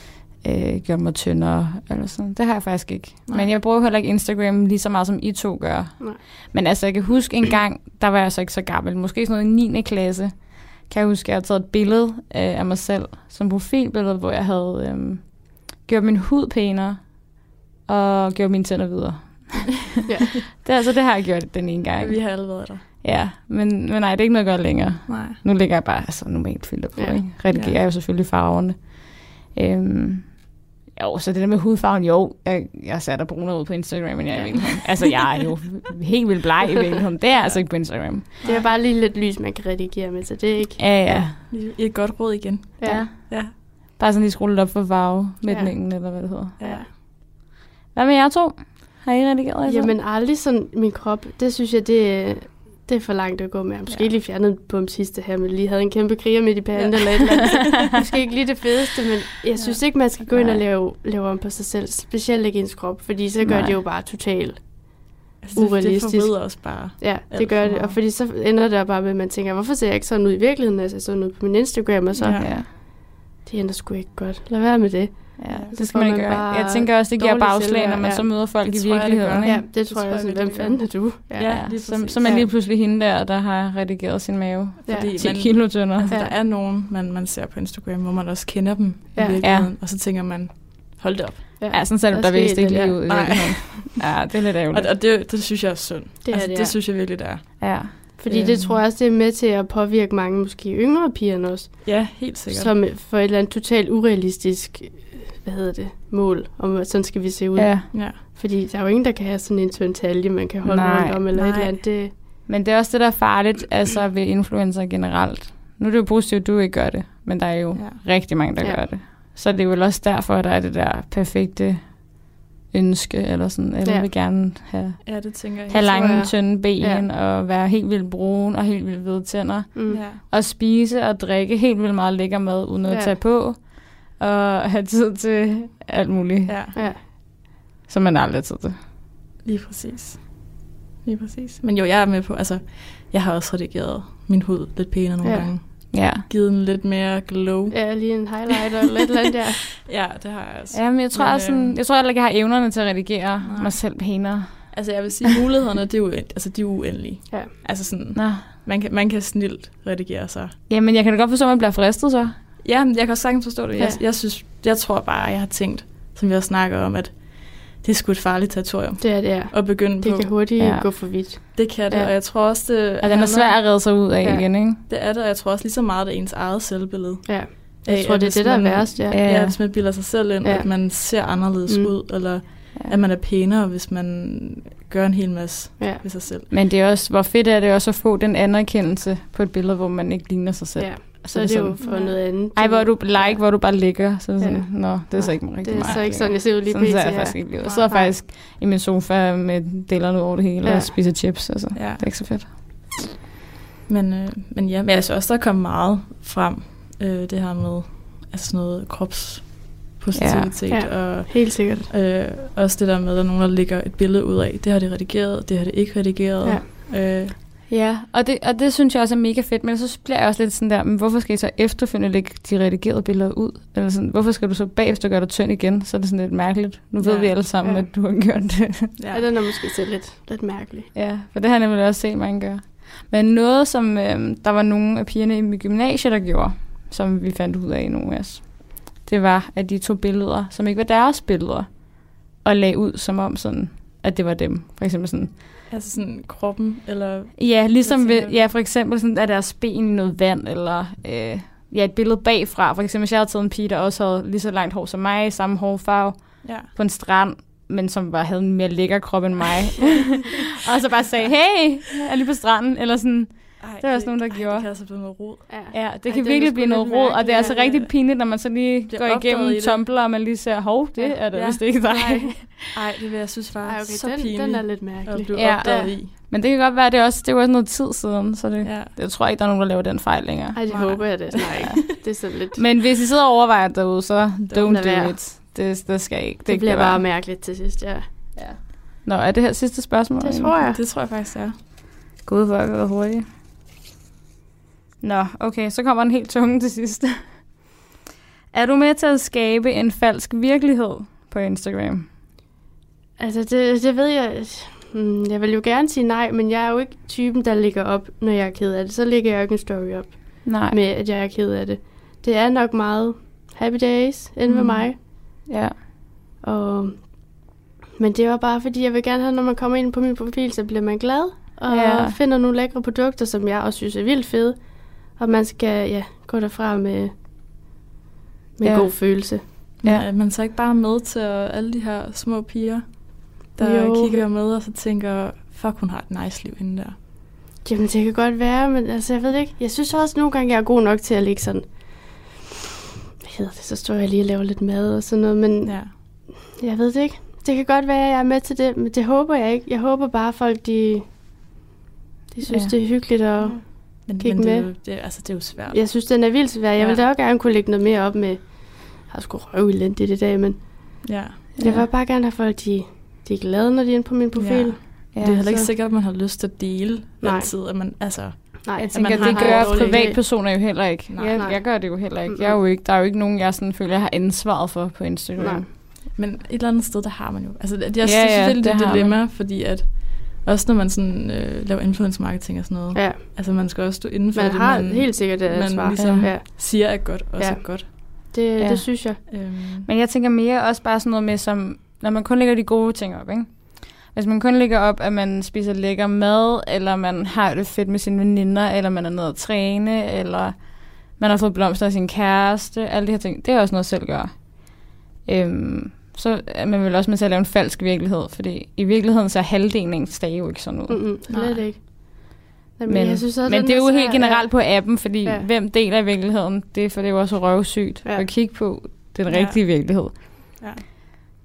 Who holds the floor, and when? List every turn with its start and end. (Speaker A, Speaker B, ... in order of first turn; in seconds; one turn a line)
Speaker A: 0.4-20.0
Speaker B: 20.1-20.4
Speaker A: 20.5-38.3
Speaker C: 22.0-22.8
Speaker C: 25.1-25.4
Speaker B: 27.0-27.2
Speaker C: 27.5-27.8
Speaker C: 38.4-38.7
Speaker B: 38.4-41.3
Speaker A: 40.8-41.4
Speaker C: 41.4-43.5
Speaker B: 42.8-43.1
Speaker A: 42.8-46.6
Speaker B: 45.5-46.9
Speaker C: 46.6-46.9
Speaker A: 47.9-49.9
Speaker B: 49.7-78.3
Speaker C: 56.8-58.0
Speaker C: 59.6-59.8
Speaker A: 60.3-60.6
Speaker A: 63.4-63.8
Speaker C: 65.4-68.0
Speaker C: 72.2-72.5
Speaker A: 72.3-72.7
Speaker A: 75.4-79.6
Speaker C: 78.6-82.5
Speaker B: 79.4-82.5
Speaker A: 81.5-86.1
Speaker C: 84.9-91.6
Speaker B: 89.2-89.4
Speaker A: 89.4-89.7
Speaker B: 91.6-93.0
Speaker A: 91.7-94.9
Speaker C: 93.1-98.8
Speaker B: 96.2-96.7
Speaker A: 97.6-97.9
Speaker B: 98.2-112.1
Speaker C: 101.8-102.7
Speaker A: 107.6-107.9
Speaker C: 107.9-108.2
Speaker A: 110.7-111.2
Speaker C: 111.3-111.7
Speaker A: 112.5-138.8
Speaker C: 117.8-118.0
Speaker C: 125.0-126.2
Speaker B: 125.9-127.0
Speaker B: 129.8-130.0
Speaker C: 129.9-130.2
Speaker B: 132.9-133.2
Speaker C: 136.5-136.8
Speaker B: 136.8-137.0
Speaker C: 139.4-148.5
Speaker B: 145.2-145.5
Speaker A: 145.9-146.3
Speaker B: 147.7-149.7
Speaker C: 149.8-151.8
Speaker A: 150.7-154.8
Speaker C: 153.4-153.8
Speaker C: 154.7-160.6
Speaker A: 158.2-158.5
Speaker A: 160.7-162.4
Speaker C: 162.6-170.3
Speaker B: 163.8-164.0
Speaker B: 169.0-172.1
Speaker A: 170.6-170.9
Speaker C: 171.6-173.6
Speaker A: 173.0-174.8
Speaker C: 174.8-186.5
Speaker B: 177.3-179.2
Speaker A: 179.1-179.6
Speaker B: 180.4-181.9
Speaker A: 186.5-202.9
Speaker B: 190.8-193.6
Speaker C: 191.8-192.2
Speaker B: 194.4-198.2
Speaker C: 195.8-196.1
Speaker B: 200.6-200.9
Speaker C: 201.7-202.1
Speaker C: 203.9-217.3
Speaker A: 210.2-210.5
Speaker B: 210.7-211.9
Speaker A: 217.7-228.9
Speaker C: 227.0-227.3
Speaker B: 227.6-227.9
Speaker C: 229.0-229.2
Speaker B: 229.1-230.9
Speaker A: 230.9-245.4
Speaker C: 245.7-248.4
Speaker A: 247.4-264.7
Speaker C: 256.4-256.7
Speaker C: 263.6-265.7
Speaker B: 265.5-267.9
Speaker A: 265.7-272.8
Speaker C: 267.4-267.8
Speaker C: 268.9-269.8
Speaker C: 271.3-276.1
Speaker B: 271.9-272.3
Speaker B: 273.6-275.9
Speaker A: 275.4-280.6
Speaker C: 278.6-278.9
Speaker B: 280.5-282.6
Speaker C: 280.7-281.8
Speaker A: 282.6-287.0
Speaker B: 284.6-285.2
Speaker B: 286.5-288.1
Speaker A: 288.4-290.6
Speaker B: 290.2-290.8
Speaker C: 290.6-291.6
Speaker A: 292.2-293.3
Speaker A: 295.0-297.5
Speaker A: 298.5-302.1
Speaker B: 303.2-315.0
Speaker A: 310.4-310.8
Speaker C: 314.5-314.9
Speaker A: 315.5-315.8
Speaker B: 316.4-317.4
Speaker B: 318.0-327.1
Speaker A: 321.7-322.2
Speaker B: 328.6-329.4
Speaker A: 328.6-328.9
Speaker C: 329.8-336.9
Speaker B: 333.6-334.2
Speaker B: 337.6-342.4
Speaker B: 343.2-351.1
Speaker C: 345.6-345.9
Speaker B: 352.3-354.7
Speaker C: 353.4-355.8
Speaker B: 355.7-365.7
Speaker C: 356.8-357.0
Speaker C: 361.1-361.5
Speaker A: 361.6-361.9
Speaker C: 364.4-370.2
Speaker A: 365.1-365.4
Speaker B: 367.2-367.5
Speaker B: 368.6-370.2
Speaker A: 368.8-375.6
Speaker C: 371.1-371.4
Speaker B: 371.3-372.6
Speaker B: 375.4-375.6
Speaker C: 376.1-387.9
Speaker A: 378.0-379.1
Speaker B: 382.9-383.4
Speaker B: 384.4-389.2
Speaker A: 386.0-386.3
Speaker A: 388.6-400.6
Speaker C: 389.3-389.9
Speaker A: 401.2-404.6
Speaker A: 405.2-411.0
Speaker B: 410.9-415.5
Speaker C: 411.3-411.6
Speaker A: 412.9-420.6
Speaker C: 419.3-419.6
Speaker C: 420.1-420.8